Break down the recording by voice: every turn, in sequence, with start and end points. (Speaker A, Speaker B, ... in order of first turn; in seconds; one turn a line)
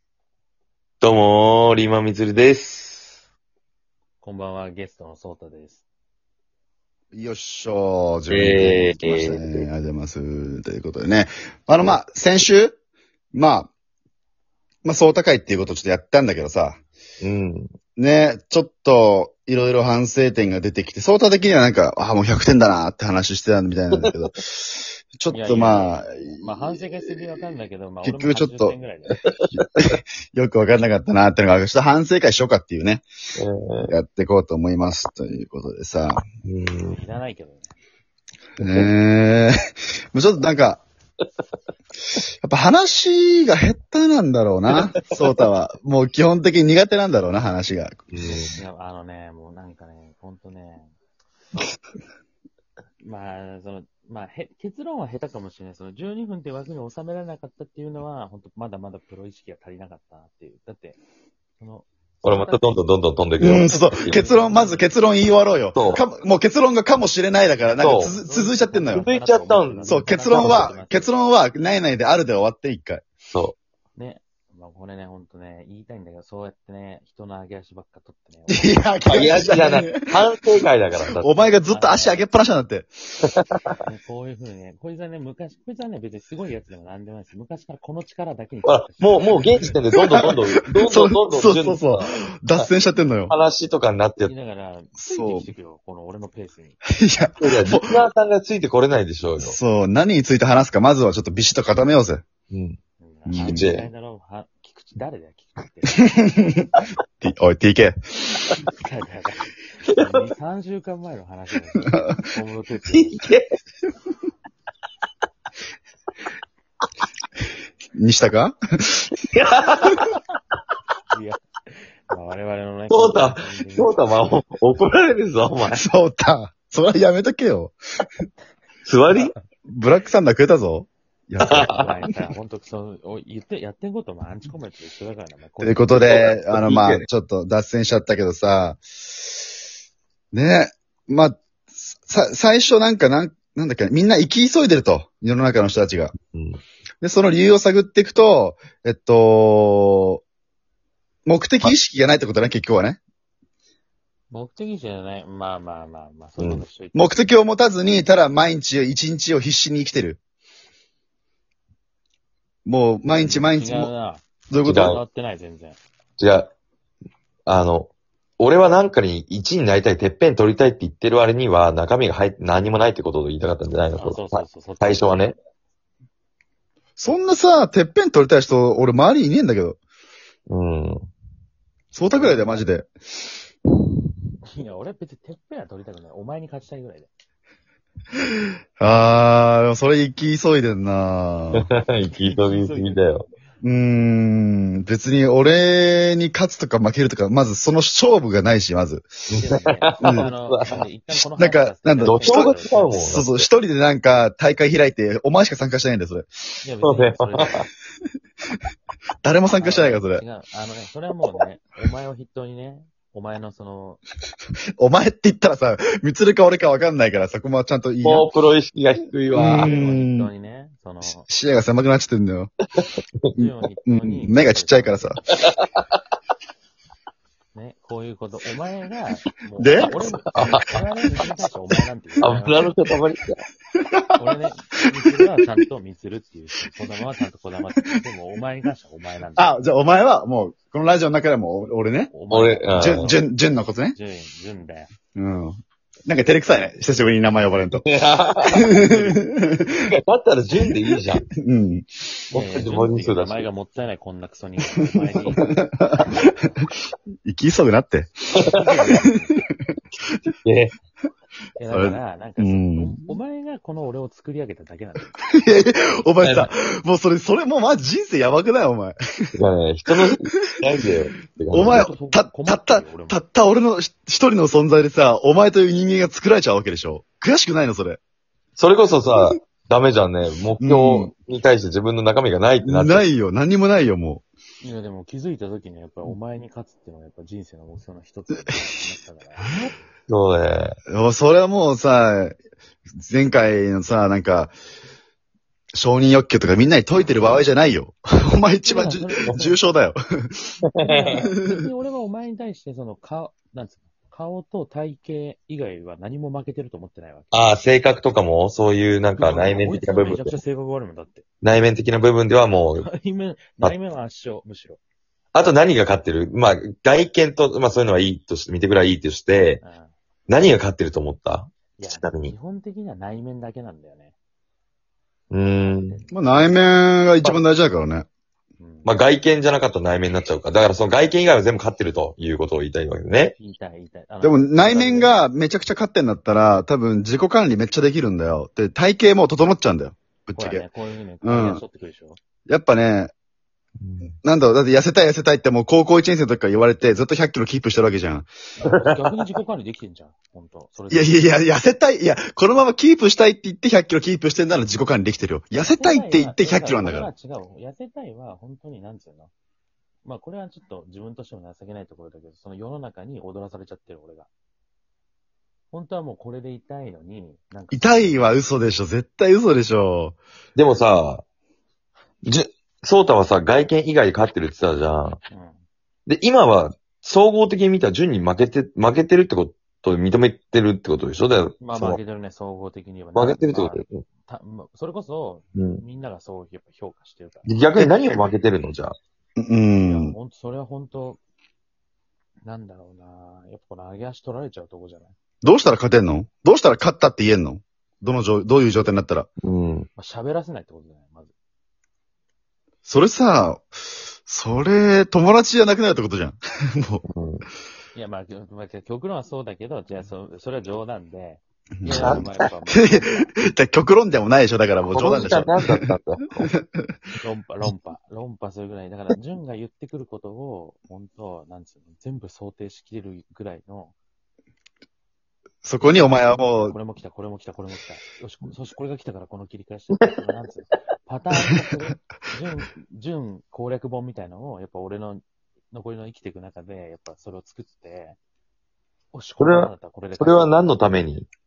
Speaker A: 1.0-3.2
Speaker B: 4.2-5.8
Speaker C: 7.1-12.8
Speaker A: 8.3-9.7
Speaker C: 13.3-13.7
Speaker C: 14.8-16.8
Speaker A: 17.2-17.7
Speaker C: 18.0-26.6
Speaker B: 25.3-29.2
Speaker C: 28.0-28.7
Speaker A: 29.2-29.9
Speaker C: 29.8-33.1
Speaker A: 33.4-33.9
Speaker C: 33.9-36.2
Speaker A: 36.4-37.0
Speaker B: 36.8-37.7
Speaker A: 38.6-38.9
Speaker C: 38.6-39.5
Speaker C: 40.1-40.8
Speaker C: 42.4-48.0
Speaker A: 44.7-45.4
Speaker A: 48.1-48.6
Speaker B: 48.2-51.0
Speaker B: 53.0-61.0
Speaker B: 61.6-62.8
Speaker A: 62.2-64.2
Speaker C: 63.4-69.0
Speaker B: 63.6-64.9
Speaker A: 65.7-66.0
Speaker A: 67.8-68.2
Speaker B: 67.9-71.1
Speaker A: 68.9-70.7
Speaker C: 69.8-73.0
Speaker B: 74.0-78.8
Speaker C: 78.5-80.1
Speaker A: 79.0-81.5
Speaker C: 81.2-82.9
Speaker B: 81.7-82.2
Speaker A: 83.2-83.7
Speaker B: 83.8-89.7
Speaker A: 88.6-92.1
Speaker C: 90.8-93.3
Speaker A: 93.3-94.3
Speaker B: 94.2-96.8
Speaker C: 95.0-95.5
Speaker C: 96.9-98.0
Speaker A: 97.4-99.6
Speaker C: 99.4-102.2
Speaker A: 102.5-102.8
Speaker B: 103.0-106.1
Speaker C: 103.2-103.7
Speaker A: 103.4-103.9
Speaker C: 106.1-106.7
Speaker C: 107.2-108.0
Speaker B: 108.7-113.2
Speaker A: 109.9-110.2
Speaker A: 112.9-113.4
Speaker C: 118.0-119.0
Speaker A: 119.2-120.1
Speaker B: 121.1-121.4
Speaker B: 122.1-124.3
Speaker A: 122.9-125.8
Speaker C: 125.7-127.8
Speaker A: 128.8-129.3
Speaker C: 129.7-131.7
Speaker A: 131.4-131.9
Speaker B: 131.7-136.1
Speaker C: 135.6-138.8
Speaker A: 136.0-137.1
Speaker C: 140.3-146.1
Speaker A: 146.3-146.6
Speaker C: 147.0-150.2
Speaker C: 151.2-153.0
Speaker B: 154.3-157.3
Speaker A: 156.4-156.7
Speaker C: 156.9-160.2
Speaker C: 162.6-163.9
Speaker B: 163.2-165.8
Speaker C: 164.5-164.9
Speaker A: 164.6-165.0
Speaker A: 166.2-166.5
Speaker A: 167.4-175.4
Speaker B: 174.0-175.3
Speaker C: 177.0-179.8
Speaker A: 180.5-181.1
Speaker C: 181.9-182.9
Speaker B: 182.1-182.7
Speaker B: 184.5-187.1
Speaker C: 188.8-191.7
Speaker A: 191.5-193.2
Speaker B: 192.2-193.1
Speaker C: 193.6-199.2
Speaker A: 199.3-200.8
Speaker B: 199.4-203.2
Speaker C: 200.0-200.3
Speaker C: 201.1-206.3
Speaker A: 202.0-203.5
Speaker B: 206.6-207.6
Speaker A: 206.8-207.6
Speaker C: 209.2-210.2
Speaker B: 209.6-214.0
Speaker C: 214.8-218.3
Speaker A: 218.0-219.7
Speaker C: 219.3-220.3
Speaker B: 219.6-221.3
Speaker C: 221.3-222.5
Speaker A: 222.8-223.3
Speaker B: 223.3-225.2
Speaker C: 223.8-225.2
Speaker A: 225.3-225.6
Speaker B: 227.5-232.7
Speaker C: 229.6-230.0
Speaker A: 230.3-230.7
Speaker A: 232.2-233.4
Speaker B: 234.2-239.5
Speaker C: 239.3-242.1
Speaker B: 242.1-243.2
Speaker A: 242.3-243.1
Speaker C: 242.8-243.9
Speaker B: 243.9-244.9
Speaker C: 245.1-247.8
Speaker A: 247.8-249.0
Speaker C: 248.5-249.8
Speaker B: 248.6-249.1
Speaker A: 249.7-251.2
Speaker C: 251.3-251.9
Speaker B: 252.3-255.5
Speaker A: 252.3-253.5
Speaker C: 254.9-256.7
Speaker C: 257.2-258.1
Speaker A: 258.4-258.9
Speaker B: 258.6-259.4
Speaker A: 260.4-260.7
Speaker B: 261.6-265.1
Speaker C: 261.7-263.1
Speaker C: 265.3-268.9
Speaker A: 266.2-266.5
Speaker A: 269.4-271.9
Speaker C: 271.5-278.0
Speaker B: 271.6-273.2
Speaker A: 278.6-283.1
Speaker C: 280.6-281.1
Speaker C: 282.6-284.2
Speaker B: 284.6-289.5
Speaker A: 290.1-290.8
Speaker C: 290.9-292.4
Speaker C: 293.0-294.5
Speaker C: 295.7-300.5
Speaker B: 298.6-299.6
Speaker A: 300.7-301.2
Speaker B: 300.8-307.6
Speaker C: 301.2-301.6
Speaker A: 307.3-310.4
Speaker B: 309.1-311.2
Speaker A: 311.4-312.9
Speaker B: 312.8-314.8
Speaker A: 315.3-319.6
Speaker B: 319.6-319.9
Speaker A: 320.3-322.4
Speaker B: 321.8-324.1
Speaker A: 325.3-326.0
Speaker B: 325.4-326.5
Speaker C: 326.1-328.1
Speaker B: 328.6-328.9
Speaker A: 328.8-333.4
Speaker B: 333.4-335.2
Speaker C: 334.2-340.6
Speaker B: 340.4-342.2
Speaker C: 341.2-341.6
Speaker C: 342.5-343.1
Speaker A: 343.8-344.1
Speaker C: 344.2-348.3
Speaker B: 348.6-351.3
Speaker A: 348.6-349.0
Speaker C: 350.9-357.1
Speaker B: 355.5-359.3
Speaker B: 360.0-364.3
Speaker B: 365.7-368.4
Speaker C: 367.7-370.2
Speaker A: 370.5-371.2
Speaker A: 372.2-375.2
Speaker B: 375.3-375.6
Speaker A: 376.1-382.0
Speaker B: 381.6-387.5
Speaker A: 383.1-384.0
Speaker A: 385.5-385.8
Speaker A: 387.4-388.9
Speaker C: 387.8-388.2
Speaker C: 389.4-390.2
Speaker B: 389.8-391.2
Speaker B: 392.4-395.1
Speaker C: 395.4-399.3
Speaker A: 399.4-399.9
Speaker B: 399.9-401.3
Speaker C: 402.8-403.7
Speaker C: 404.2-407.0
Speaker A: 407.1-407.4
Speaker B: 407.9-413.3
Speaker C: 411.8-415.8
Speaker A: 411.9-412.4
Speaker A: 414.9-416.5
Speaker C: 416.5-416.9
Speaker B: 417.2-423.9
Speaker C: 425.6-426.8
Speaker B: 425.8-438.2
Speaker B: 439.1-440.5
Speaker A: 439.4-441.3